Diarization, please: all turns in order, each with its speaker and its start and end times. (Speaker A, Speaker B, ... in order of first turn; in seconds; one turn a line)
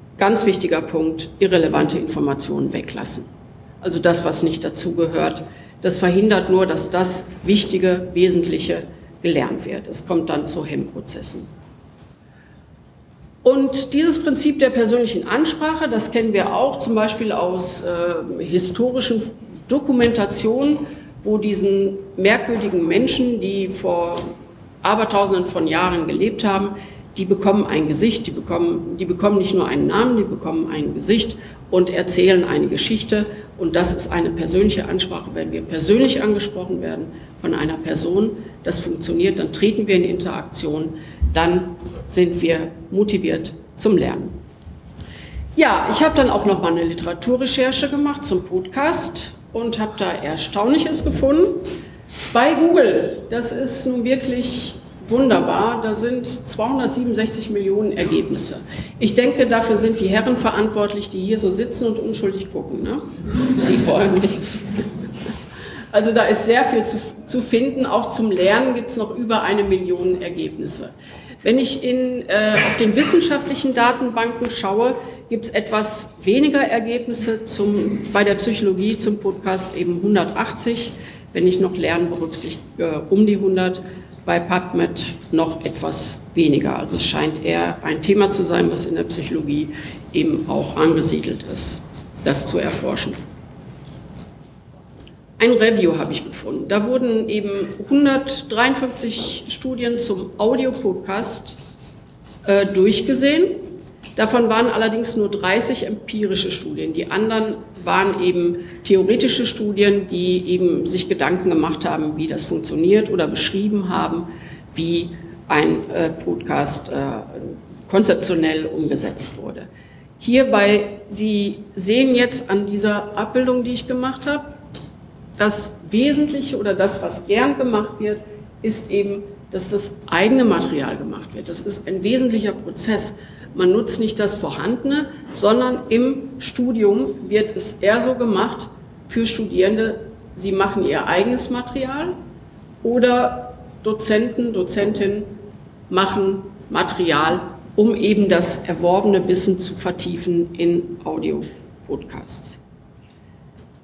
Speaker A: 0.2-3.3
Speaker A: 3.8-11.5
Speaker A: 13.4-24.3
Speaker A: 24.8-44.4
Speaker A: 45.5-51.6
Speaker A: 52.3-64.8
Speaker A: 65.9-93.2
Speaker A: 95.4-101.6
Speaker A: 102.4-103.6
Speaker A: 104.2-119.7
Speaker A: 120.2-124.6
Speaker A: 125.4-142.2
Speaker A: 142.8-145.3
Speaker A: 145.9-152.6